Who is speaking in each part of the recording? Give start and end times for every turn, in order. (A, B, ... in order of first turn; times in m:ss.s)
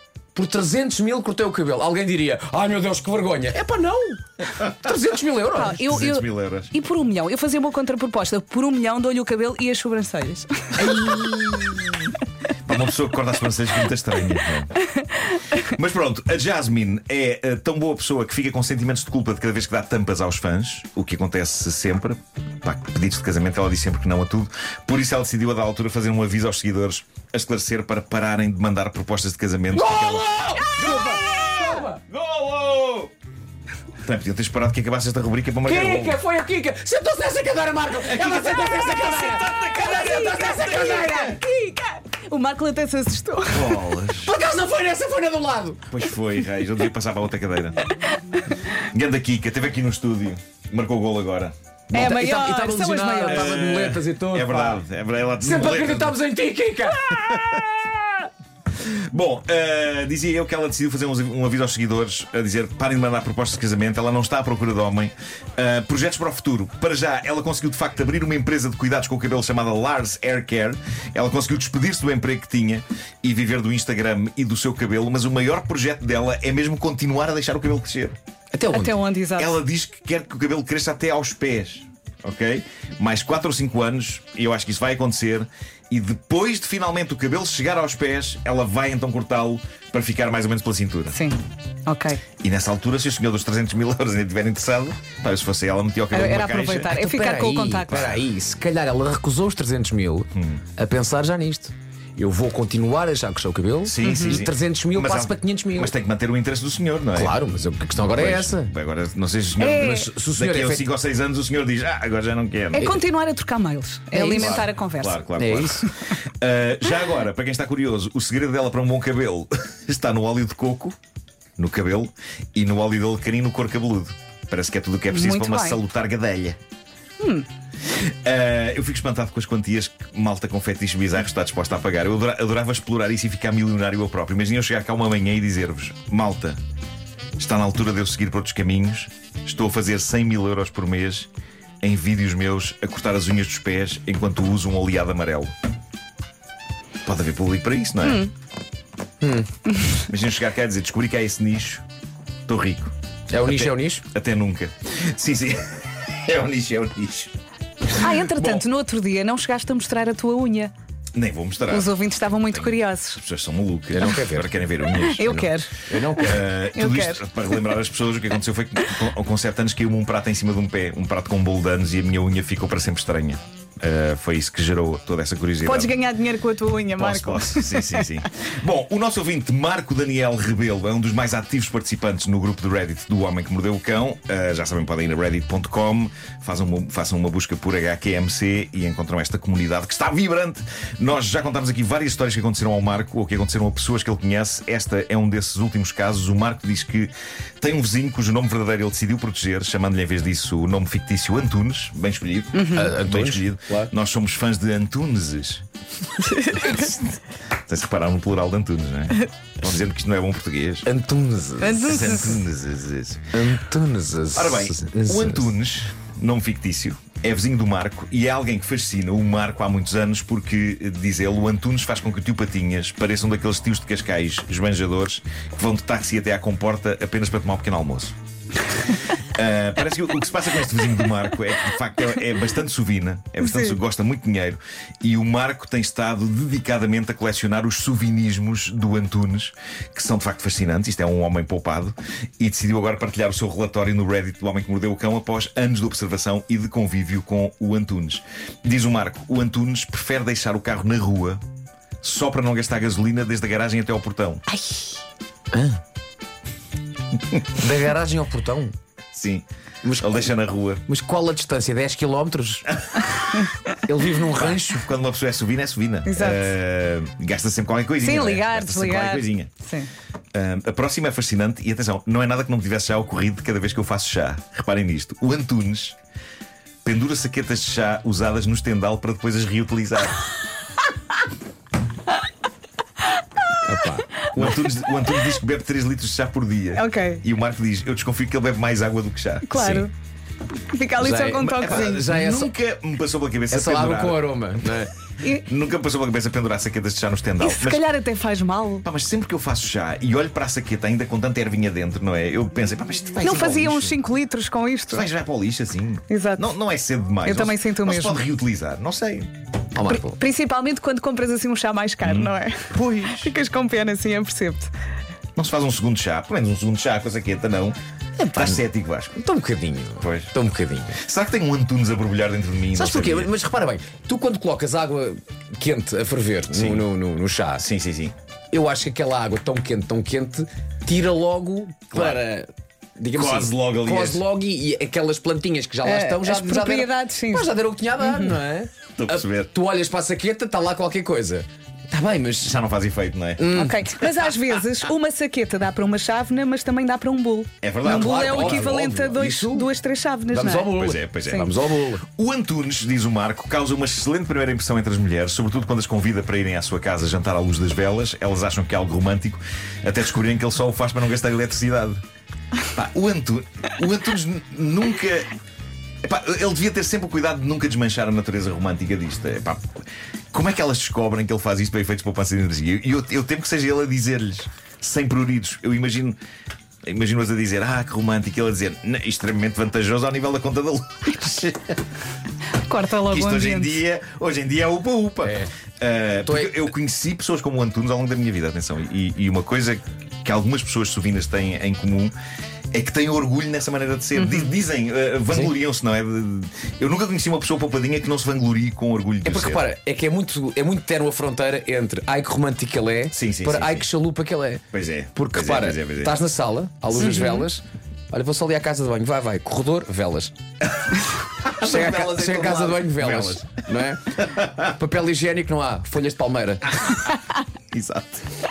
0:00.4-0:05.8 A
0:05.5-0:10.9 B
0:05.8-0:06.7 C
0:10.8-0:11.8 A
0:11.0-0:11.9 C
0:12.6-0:14.8 C
0:15.6-0:33.1 C
0:29.7-0:32.0 A
0:34.0-0:36.2 C
0:35.6-0:41.4 A
0:38.0-0:41.4 C
0:39.8-0:43.8 B
0:43.5-0:44.3 C
0:44.2-0:45.8 A
0:45.9-0:47.8 C
0:48.9-0:51.5 C
0:51.9-0:54.8 A
0:51.9-0:53.7 B
0:53.3-0:56.2 C
0:55.4-0:57.4 A
0:56.9-0:58.2 C
0:58.8-1:18.2 C
1:18.5-1:19.0 A
1:18.7-1:19.6 B
1:19.4-1:31.2 C
1:31.1-1:32.2 B
1:32.4-1:36.9 C
1:36.1-1:38.2 B
1:36.9-1:45.9 A
1:37.9-1:38.2 C
1:40.3-1:40.6 C
1:43.8-1:47.4 C
1:44.0-1:44.4 B
1:47.2-1:48.7 A
1:48.0-1:53.0 C
1:49.6-1:50.1 B
1:49.7-1:50.9 A
1:52.7-1:55.3 B
1:54.1-1:54.6 A
1:54.4-2:01.0 C
1:55.4-1:55.9 A
2:01.6-2:06.6 C
2:05.1-2:05.8 B
2:07.2-2:07.5 B
2:07.9-2:16.6 C
2:17.4-2:21.3 C
2:21.8-2:25.5 C
2:27.0-2:28.3 C
2:28.0-2:28.3 B
2:29.2-2:29.5 A
2:30.0-2:31.8 C
2:32.5-2:37.3 C
2:33.3-2:34.0 A
2:37.9-2:40.7 B
2:38.0-2:38.7 C
2:41.1-2:45.3 C
2:41.7-2:43.2 B
2:43.9-2:46.5 A
2:45.0-2:45.8 B
2:46.2-2:55.9 C
2:46.7-2:47.2 B
2:55.6-2:58.1 B
2:57.0-3:25.6 C
3:22.5-3:22.9 B
3:22.7-3:23.9 A
3:26.4-3:30.9 C
3:30.9-3:31.9 A
3:31.6-3:32.4 B
3:31.8-3:33.3 C
3:33.3-3:35.5 A
3:34.3-3:48.2 C
3:49.4-4:11.4 C
3:53.4-3:53.8 B
4:12.0-4:14.4 C
4:14.5-4:15.0 A
4:15.5-4:15.8 A
4:17.4-4:18.7 A
4:19.1-4:19.4 C
4:19.8-4:20.3 A
4:20.0-4:20.8 C
4:20.9-4:22.7 A
4:22.9-4:23.5 C
4:23.9-4:24.8 A
4:24.3-4:29.5 C
4:26.1-4:26.5 B
4:28.0-4:29.9 B
4:30.3-4:36.0 C
4:36.8-4:40.2 C
4:43.6-4:44.7 A
4:44.3-4:49.6 C
4:46.8-4:47.2 B
4:49.4-4:49.9 B
4:49.5-4:49.9 A
4:50.7-4:52.1 B
4:51.0-4:52.5 A
4:51.4-4:54.3 C
4:53.5-4:54.9 A
4:55.4-4:57.8 C
4:57.4-4:58.9 B
4:58.8-5:04.0 C
5:03.2-5:05.1 B
5:04.9-5:09.3 C
5:06.1-5:06.5 B
5:07.2-5:08.2 B
5:09.8-5:10.2 A
5:09.9-5:14.7 B
5:12.0-5:13.3 C
5:15.4-5:17.8 C
5:18.2-5:18.6 A
5:18.4-5:19.1 C
5:19.2-5:21.0 A
5:20.0-5:20.3 C
5:21.0-5:23.3 C
5:22.7-5:27.7 A
5:26.5-5:26.8 C
5:27.6-5:28.2 C
5:28.5-5:42.5 A
5:31.9-5:32.2 C
5:33.1-5:34.2 C
5:35.8-5:38.4 B
5:39.0-5:39.5 C
5:42.4-5:43.5 C
5:43.4-5:44.1 A
5:43.5-5:51.5 B
5:47.6-5:48.7 C
5:47.8-5:49.7 A
5:50.3-5:52.0 A
5:50.7-5:51.6 C
5:52.1-6:02.0 C
6:02.7-6:05.3 C
6:06.0-6:09.6 C
6:10.3-6:16.2 C
6:16.8-6:21.8 C
6:22.6-6:23.8 B
6:23.1-6:32.2 C
6:25.2-6:25.5 A
6:26.2-6:26.7 A
6:32.7-6:39.7 C
6:34.2-6:34.5 B
6:35.3-6:35.5 A
6:39.2-6:44.6 A
6:43.1-6:43.9 C
6:44.7-6:46.2 C
6:45.2-6:50.3 A
6:47.0-6:47.5 B
6:51.4-6:53.5 C
6:51.6-6:56.6 A
6:54.2-6:54.6 C
6:57.7-6:58.2 C